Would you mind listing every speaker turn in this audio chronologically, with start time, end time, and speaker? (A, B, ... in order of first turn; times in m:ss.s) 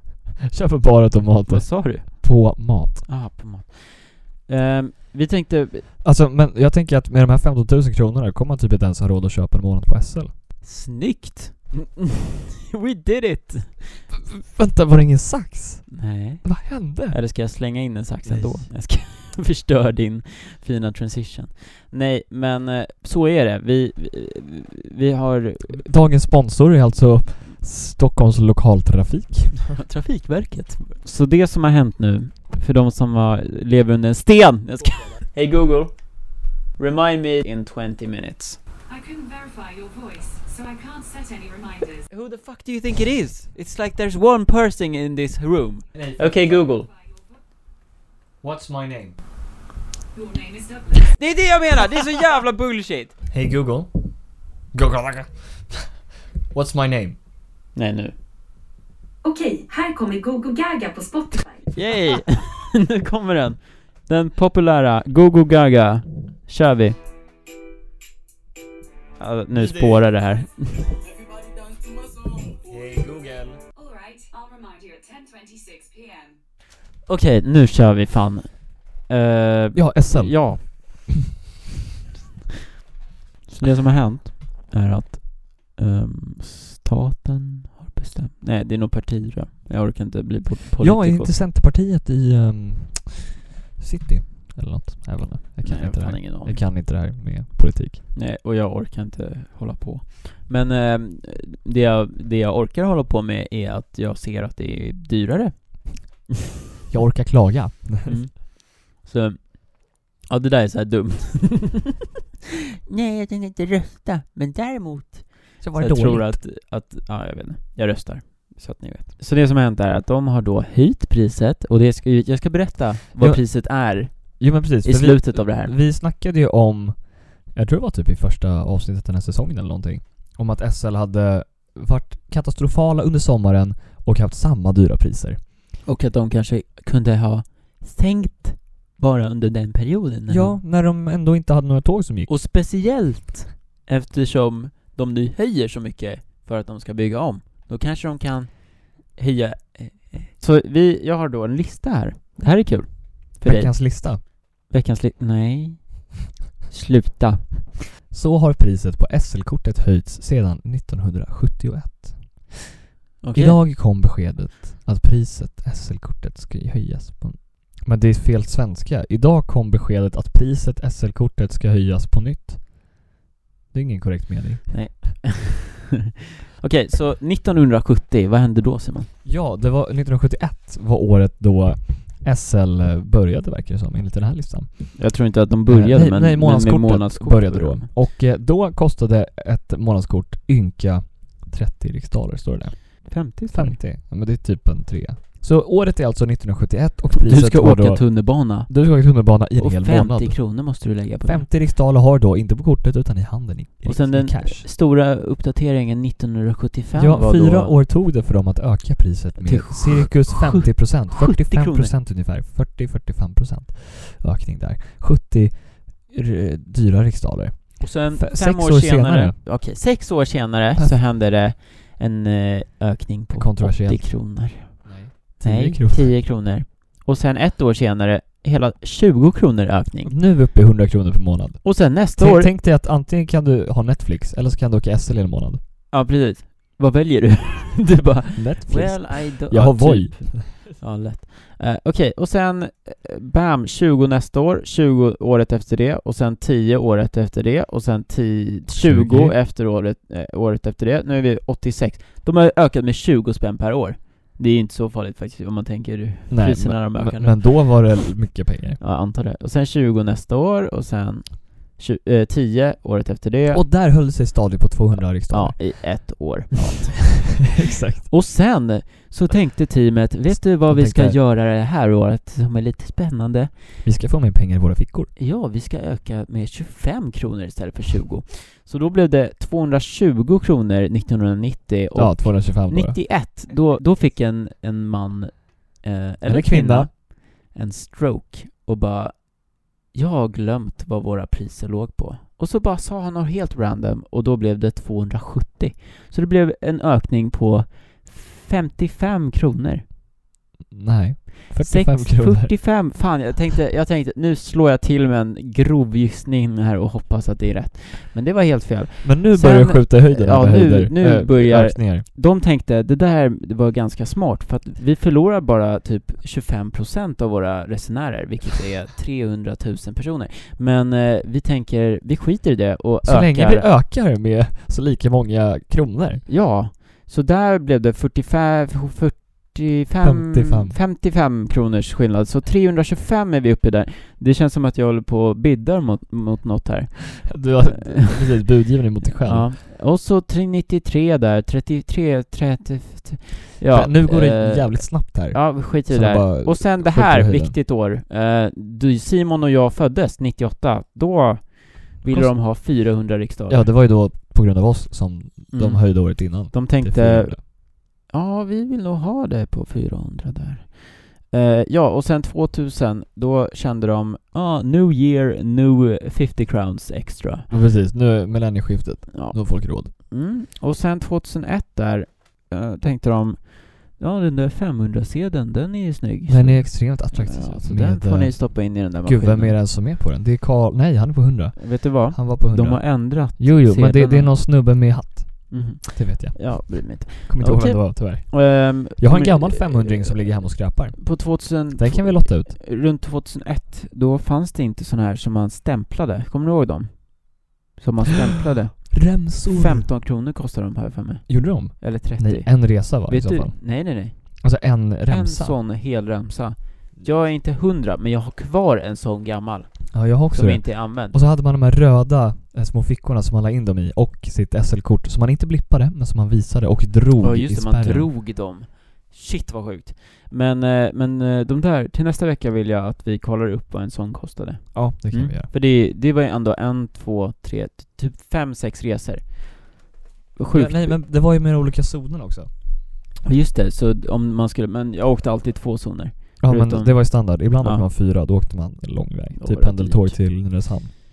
0:00.5-0:03.1 A
0:01.5-0:05.9 B
0:06.0-0:10.3 A
0:10.6-0:14.0 B
0:14.1-0:17.2 A
0:15.9-0:25.8 B
0:18.2-0:18.7 A
0:25.7-0:29.7 A
0:29.7-0:38.6 B
0:38.9-0:42.1 C
0:42.1-0:46.9 B
0:45.9-0:46.6 A
0:46.6-0:47.4 C
0:48.4-0:49.2 A
0:50.1-0:51.1 C
0:51.1-0:53.1 B
0:53.3-0:54.1 A
0:54.7-0:55.9 A
0:56.5-0:57.2 A
0:57.8-0:58.1 B
0:59.2-1:01.7 C
1:01.7-1:07.0 B
1:09.2-1:10.9 B
1:09.5-1:10.1 A
1:12.6-1:13.6 A
1:13.8-1:16.4 C
1:17.1-1:21.1 B
1:19.7-1:21.1 A
1:23.5-1:31.4 B
1:30.8-1:38.0 A
1:35.6-1:36.6 B
1:38.1-1:46.2 B
1:46.9-1:48.2 A
1:48.0-1:51.9 B
1:52.9-2:05.8 B
1:55.6-1:56.4 A
2:03.2-2:15.4 A
2:15.8-2:20.6 B
2:20.3-2:22.3 A
2:22.3-2:37.8 B
2:33.4-2:34.2 A
2:38.1-2:42.6 A
2:43.2-2:43.6 B
2:43.3-2:52.8 A
2:53.7-2:55.2 A
2:54.7-2:55.8 B
2:56.6-2:59.1 B
2:59.2-3:24.7 A
3:05.0-3:07.9 B
3:13.1-3:13.8 B
3:17.2-3:21.5 B
3:23.8-3:27.8 B
3:27.0-3:39.4 A
3:29.4-3:32.0 B
3:37.8-3:50.2 B
3:43.3-3:46.2 A
3:50.1-3:55.6 A
3:51.6-3:52.5 B
3:55.9-4:17.9 B
3:58.4-4:00.5 A
4:08.7-4:09.4 A
4:16.3-4:18.8 A
4:18.8-4:23.6 B
4:23.5-4:26.1 A
4:25.3-4:33.6 B
4:27.5-4:28.1 A
4:30.3-4:31.2 A
4:33.8-4:35.1 A
4:35.2-4:59.8 B
4:42.0-4:43.1 A
4:46.2-4:46.9 A
5:00.7-5:02.6 A
5:01.6-5:23.7 B
5:09.0-5:12.1 A
5:23.0-5:26.3 A
5:26.3-5:38.4 B
5:30.0-5:30.8 A
5:37.3-5:39.5 A
5:39.0-5:53.7 B
5:43.7-5:47.6 A
5:52.1-5:57.4 A
5:55.5-6:07.5 B
6:07.5-6:09.9 A
6:09.1-6:19.6 B
6:16.3-6:32.6 A
6:21.6-6:24.5 B
6:25.5-6:44.4 B
6:38.9-6:39.9 A
6:41.3-6:45.6 A
6:45.1-6:51.2 B
6:47.0-6:47.2 A
6:49.9-6:58.1 A
6:57.2-7:09.8 B
7:04.7-7:05.5 A
7:10.4-7:11.0 B
7:10.5-7:12.5 A
7:13.2-7:17.9 B
7:16.4-7:20.9 A
7:19.4-7:20.2 B